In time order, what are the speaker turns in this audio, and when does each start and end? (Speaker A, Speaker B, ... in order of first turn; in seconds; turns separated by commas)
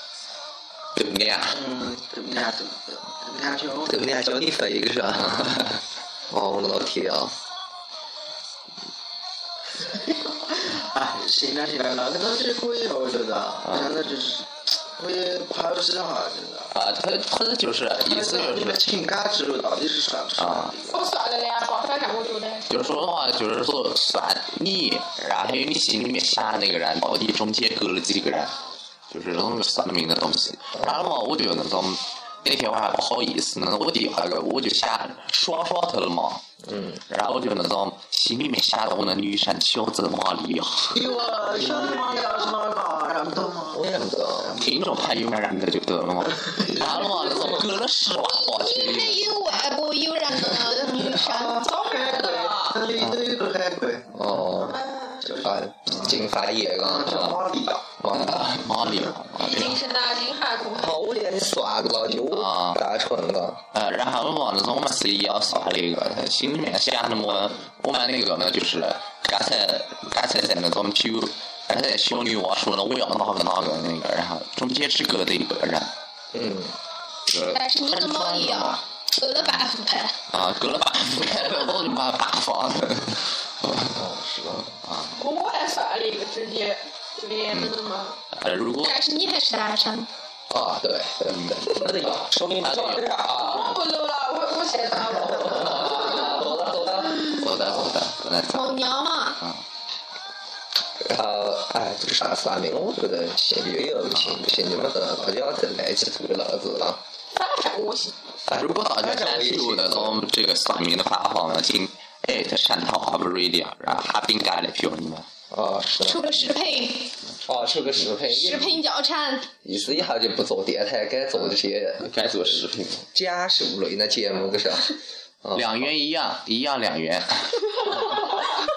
Speaker A: 0.9-1.6, Speaker B: 1.5-4.0, Speaker C: 3.9-5.7, Speaker A: 5.3-5.8, Speaker C: 6.3-7.3, Speaker B: 9.8-16.7, Speaker A: 16.7-18.8, Speaker B: 18.0-21.1, Speaker A: 20.4-20.7, Speaker D: 20.9-22.7, Speaker A: 22.7-28.5, Speaker A: 29.1-36.4, Speaker C: 36.6-37.0, Speaker A: 37.1-41.0, Speaker B: 40.9-43.8, Speaker C: 43.7-44.6, Speaker A: 44.6-49.5, Speaker B: 46.5-47.2, Speaker E: 48.4-51.6, Speaker B: 51.2-54.1, Speaker D: 51.6-52.9, Speaker C: 54.1-54.8, Speaker B: 54.7-56.1, Speaker D: 54.7-55.3, Speaker C: 55.4-57.4, Speaker B: 56.8-57.9, Speaker C: 58.0-58.5, Speaker A: 58.1-59.8, Speaker D: 59.3-61.0, Speaker C: 60.7-63.6, Speaker A: 62.3-62.8, Speaker A: 63.7-75.9, Speaker C: 76.3-76.8, Speaker A: 77.3-78.8, Speaker E: 77.3-80.2, Speaker A: 80.3-84.0, Speaker C: 83.9-84.8, Speaker A: 84.8-85.2, Speaker D: 85.1-88.2, Speaker A: 88.3-89.0, Speaker E: 88.8-90.1, Speaker C: 90.5-93.8, Speaker A: 91.3-93.2, Speaker D: 93.4-96.4, Speaker C: 95.2-97.9, Speaker A: 97.2-98.8, Speaker E: 98.5-99.4, Speaker C: 101.0-107.0, Speaker D: 107.3-108.2, Speaker C: 108.5-110.2, Speaker A: 108.5-115.3, Speaker C: 115.5-116.4, Speaker E: 116.0-117.2, Speaker C: 117.4-118.8, Speaker E: 118.3-119.5, Speaker C: 119.6-122.1, Speaker A: 122.0-123.1, Speaker C: 123.1-125.9, Speaker A: 125.5-128.0